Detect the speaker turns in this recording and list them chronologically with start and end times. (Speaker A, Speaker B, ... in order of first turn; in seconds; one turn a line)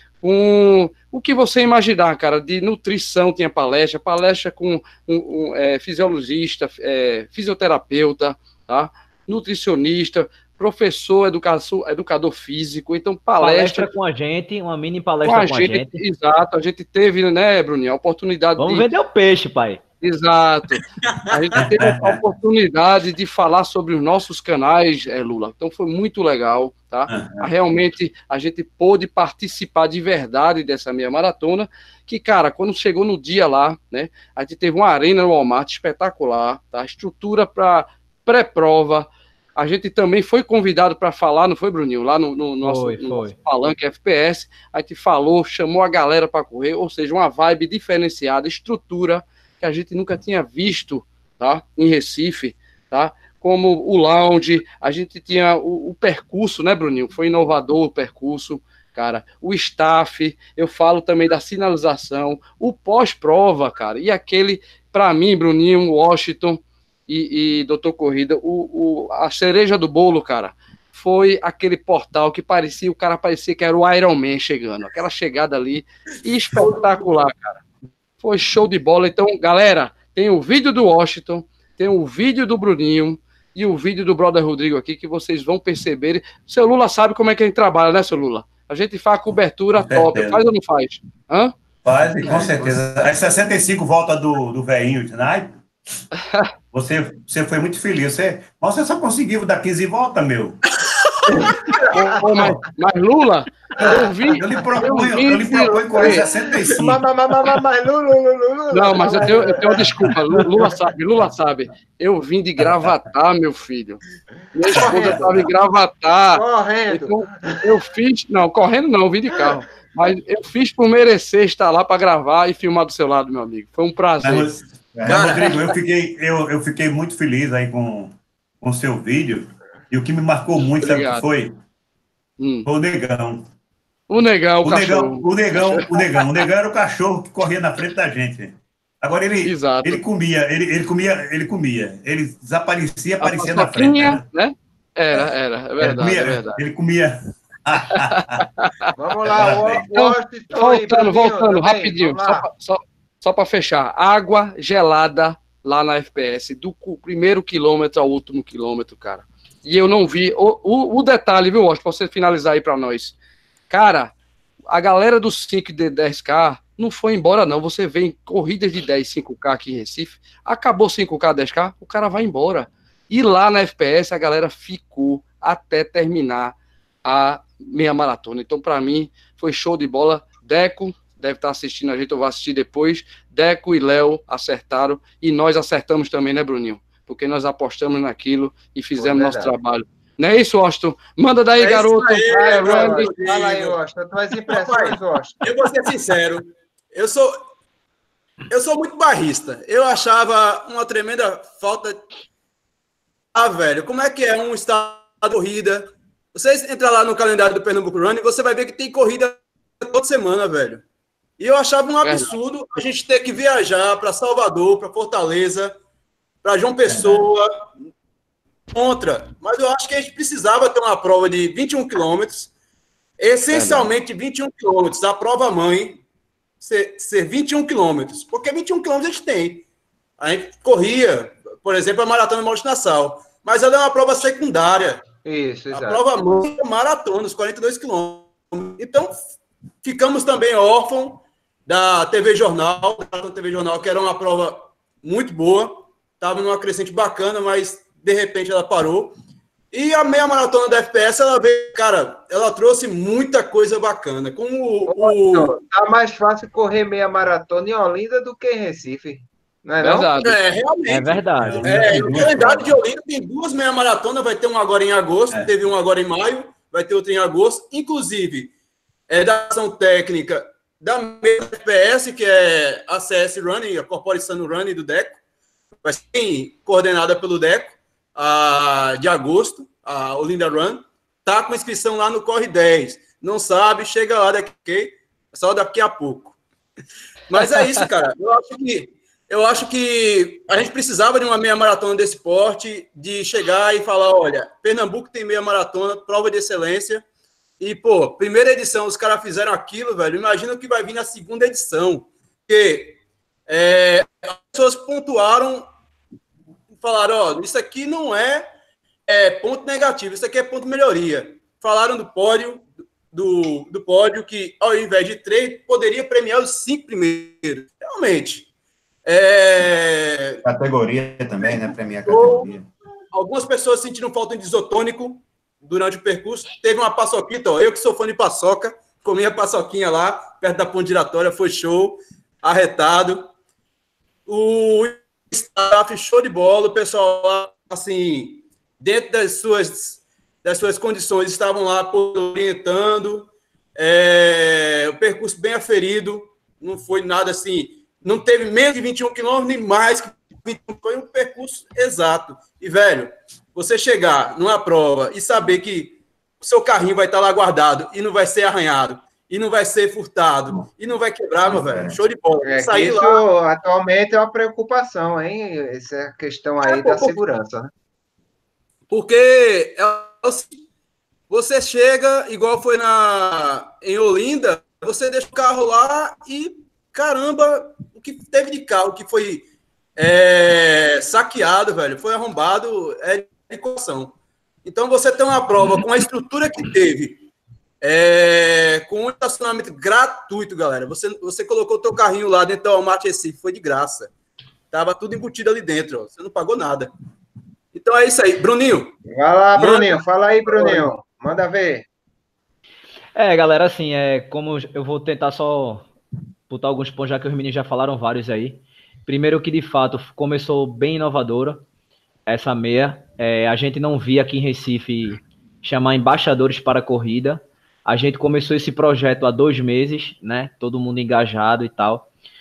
Speaker A: 0.2-13.9
Speaker B: 13.4-16.0
Speaker A: 15.2-18.9
Speaker B: 18.6-19.8
Speaker A: 20.0-77.6
Speaker C: 21.6-22.2
Speaker C: 27.1-27.5
Speaker B: 42.6-43.3
Speaker A: 78.2-91.6
Speaker C: 89.8-90.4
Speaker C: 91.8-95.6
Speaker A: 92.2-92.7
Speaker C: 96.7-100.6
Speaker D: 101.3-102.5
Speaker C: 101.3-102.6
Speaker A: 101.7-106.3
Speaker C: 103.8-107.0
Speaker D: 104.8-109.8
Speaker A: 108.7-114.0
Speaker C: 109.7-110.1
Speaker A: 114.5-124.6
Speaker C: 114.7-115.5
Speaker D: 114.7-115.3
Speaker D: 116.3-117.7
Speaker C: 124.2-131.6
Speaker E: 124.9-125.5
Speaker F: 125.0-125.7
Speaker A: 130.8-131.3
Speaker A: 132.4-132.7
Speaker C: 132.6-133.4
Speaker A: 134.1-135.9
Speaker C: 134.6-144.2
Speaker A: 139.4-140.0
Speaker A: 143.2-146.6
Speaker C: 145.1-148.4
Speaker A: 147.9-148.9
Speaker D: 149.0-152.5
Speaker C: 149.3-149.9
Speaker A: 149.9-163.2
Speaker A: 163.7-164.1
Speaker A: 164.7-193.1
Speaker D: 188.9-189.5
Speaker F: 191.6-193.8
Speaker D: 192.3-195.4
Speaker F: 194.5-197.4
Speaker F: 198.5-202.1
Speaker F: 203.3-210.8
Speaker F: 211.4-215.8
Speaker A: 212.0-212.3
Speaker F: 216.4-217.5
Speaker F: 218.7-222.5
Speaker F: 223.2-226.0
Speaker F: 226.6-229.6
Speaker F: 230.2-235.0
Speaker D: 235.2-236.0
Speaker F: 235.7-239.2
Speaker F: 239.8-249.2
Speaker F: 249.7-255.5
Speaker D: 254.9-260.1
Speaker A: 259.8-260.4
Speaker F: 260.2-268.5
Speaker B: 260.9-261.6
Speaker C: 261.3-262.8
Speaker F: 269.1-275.2
Speaker F: 275.8-286.4
Speaker F: 287.3-297.0
Speaker F: 297.6-305.7
Speaker F: 306.8-308.5
Speaker F: 309.1-318.5
Speaker F: 319.0-320.4
Speaker E: 320.4-322.7
Speaker F: 322.1-322.5
Speaker F: 323.1-333.3
Speaker F: 334.3-363.2
Speaker E: 361.5-362.0
Speaker D: 362.4-367.7
Speaker F: 366.6-367.1
Speaker F: 368.9-370.5
Speaker F: 371.3-379.4
Speaker F: 379.9-387.3
Speaker F: 387.8-394.1
Speaker F: 394.7-396.9
Speaker F: 397.7-399.0
Speaker D: 399.1-401.9
Speaker F: 399.6-400.9
Speaker B: 403.1-405.9
Speaker B: 406.5-411.6
Speaker B: 412.3-422.1